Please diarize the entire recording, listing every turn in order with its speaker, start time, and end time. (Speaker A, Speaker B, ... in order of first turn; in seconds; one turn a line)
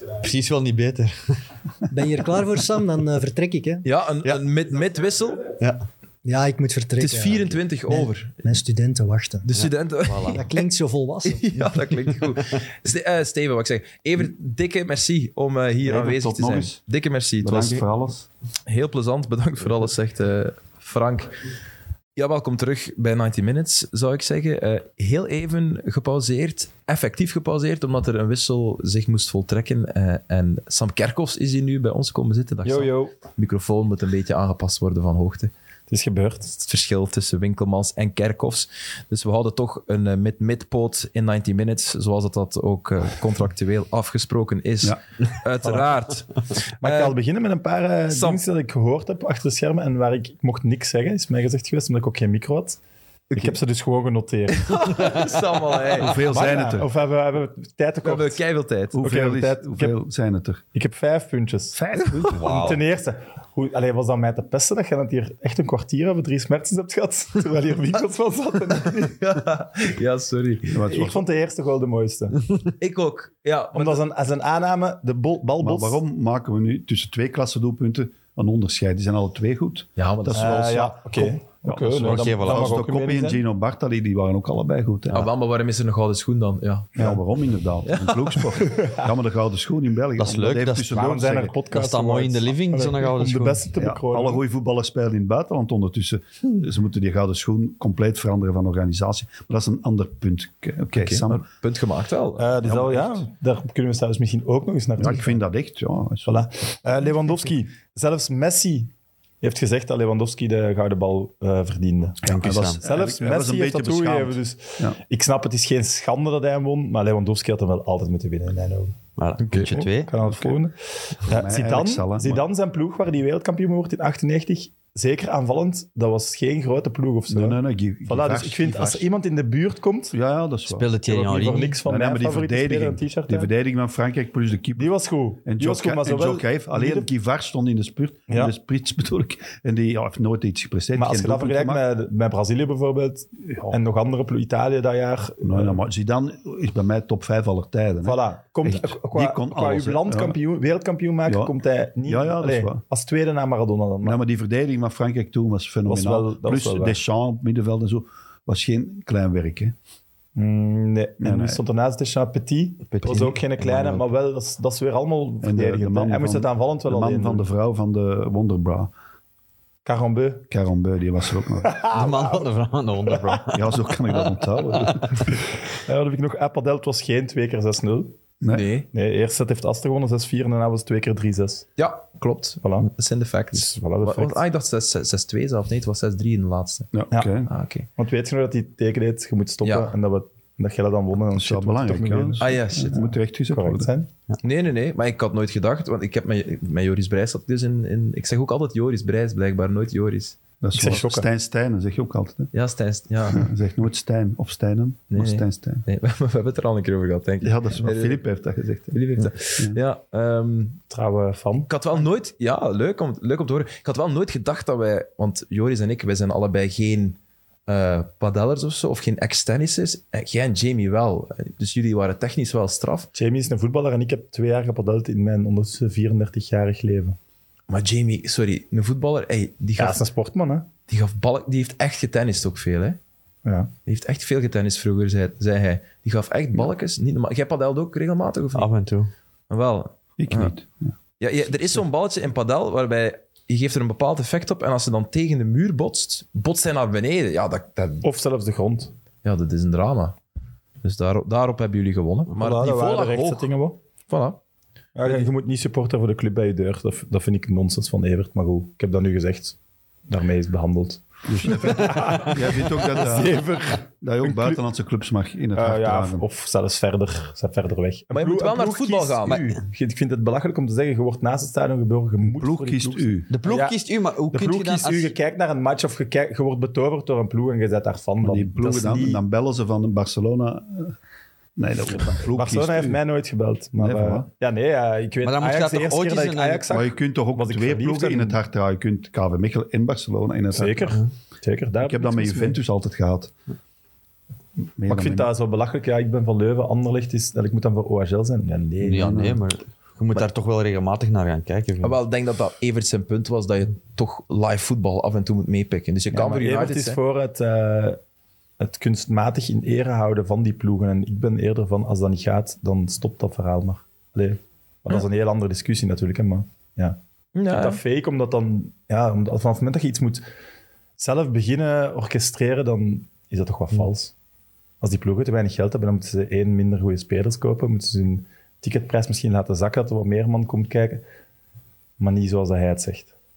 Speaker A: 0.2-1.4
Speaker B: 1.9-3.9
Speaker C: 3.9-5.5
Speaker A: 5.6-5.9
Speaker B: 6.2-9.5
Speaker C: 7.0-8.3
Speaker C: 9.4-10.6
Speaker A: 9.5-10.4
Speaker B: 10.3-11.5
Speaker C: 11.2-17.9
Speaker D: 15.8-16.8
Speaker D: 17.4-18.3
Speaker C: 18.7-21.3
Speaker C: 22.2-35.5
Speaker E: 32.6-33.2
Speaker E: 35.9-36.5
Speaker C: 36.6-47.1
Speaker E: 46.8-52.8
Speaker C: 48.1-48.4
Speaker E: 53.3-55.2
Speaker C: 54.6-56.2
Speaker D: 56.0-56.9
Speaker E: 56.0-58.4
Speaker C: 58.0-59.0
Speaker D: 58.9-60.6
Speaker E: 59.0-59.9
Speaker E: 60.7-61.8
Speaker D: 61.7-62.4
Speaker A: 62.3-62.8
Speaker E: 62.3-69.2
Speaker C: 68.9-70.8
Speaker D: 70.7-71.2
Speaker E: 70.8-72.4
Speaker C: 72.8-74.0
Speaker E: 73.7-76.0
Speaker D: 75.6-85.3
Speaker C: 80.0-80.6
Speaker E: 80.3-83.4
Speaker A: 82.0-82.7
Speaker C: 85.1-87.1
Speaker D: 87.0-91.6
Speaker C: 87.9-88.5
Speaker A: 90.2-91.0
Speaker E: 90.9-94.4
Speaker A: 91.7-93.7
Speaker D: 93.8-101.4
Speaker C: 101.0-102.5
Speaker E: 102.4-105.4
Speaker D: 102.7-103.2
Speaker D: 105.0-106.5
Speaker E: 106.3-119.0
Speaker A: 112.2-112.8
Speaker D: 112.2-115.0
Speaker A: 119.2-120.2
Speaker E: 119.5-130.1
Speaker D: 120.2-120.5
Speaker D: 121.3-122.5
Speaker D: 127.3-129.1
Speaker D: 130.1-130.9
Speaker A: 130.7-131.8
Speaker E: 131.1-133.5
Speaker D: 131.8-134.9
Speaker E: 134.8-137.1
Speaker D: 135.4-141.8
Speaker E: 141.0-145.8
Speaker D: 143.5-143.8
Speaker D: 145.4-150.4
Speaker E: 148.0-154.2
Speaker D: 151.3-151.5
Speaker D: 152.1-152.8
Speaker D: 154.0-159.7
Speaker E: 155.9-157.0
Speaker E: 160.4-167.5
Speaker D: 161.2-161.6
Speaker A: 162.9-164.1
Speaker D: 165.4-168.9
Speaker E: 169.8-170.4
Speaker D: 170.5-171.8
Speaker E: 171.6-172.4
Speaker A: 171.9-175.0
Speaker D: 173.5-175.2
Speaker E: 175.3-178.2
Speaker C: 178.5-178.9
Speaker E: 178.9-181.7
Speaker C: 181.8-186.9
Speaker E: 182.6-182.9
Speaker E: 183.5-184.4
Speaker D: 186.9-187.5
Speaker C: 187.5-187.9
Speaker E: 188.0-194.1
Speaker C: 189.6-189.9
Speaker D: 191.3-193.9
Speaker C: 192.4-193.0
Speaker C: 194.4-200.4
Speaker D: 200.6-202.5
Speaker E: 200.8-201.3
Speaker C: 202.5-203.5
Speaker D: 203.3-205.8
Speaker C: 205.1-208.2
Speaker D: 207.4-209.0
Speaker C: 208.9-210.8
Speaker E: 210.9-211.7
Speaker C: 211.7-223.1
Speaker E: 223.2-227.2
Speaker C: 227.7-230.0
Speaker E: 229.8-230.7
Speaker C: 230.9-233.0
Speaker E: 233.4-233.7
Speaker C: 233.9-238.7
Speaker A: 238.5-239.1
Speaker C: 239.5-240.5
Speaker D: 240.2-240.9
Speaker C: 241.2-248.0
Speaker E: 248.0-248.9
Speaker C: 249.2-250.2
Speaker C: 250.8-253.5
Speaker E: 252.3-253.8
Speaker C: 254.1-254.4
Speaker E: 255.0-259.6
Speaker E: 260.1-264.6
Speaker D: 261.3-266.2
Speaker E: 265.6-273.8
Speaker C: 268.1-269.5
Speaker D: 272.2-273.3
Speaker A: 273.3-275.1
Speaker E: 274.3-279.2
Speaker D: 278.2-280.9
Speaker D: 281.6-283.0
Speaker E: 282.3-288.4
Speaker D: 283.8-284.3
Speaker A: 285.2-286.8
Speaker D: 286.7-291.0
Speaker E: 290.5-292.6
Speaker D: 291.8-293.3
Speaker D: 294.8-295.3
Speaker E: 294.9-299.4
Speaker A: 298.8-302.0
Speaker C: 301.8-307.0
Speaker E: 306.1-308.0
Speaker E: 308.6-320.2
Speaker C: 317.4-317.8
Speaker E: 321.0-324.1
Speaker E: 324.8-331.0
Speaker E: 332.0-333.1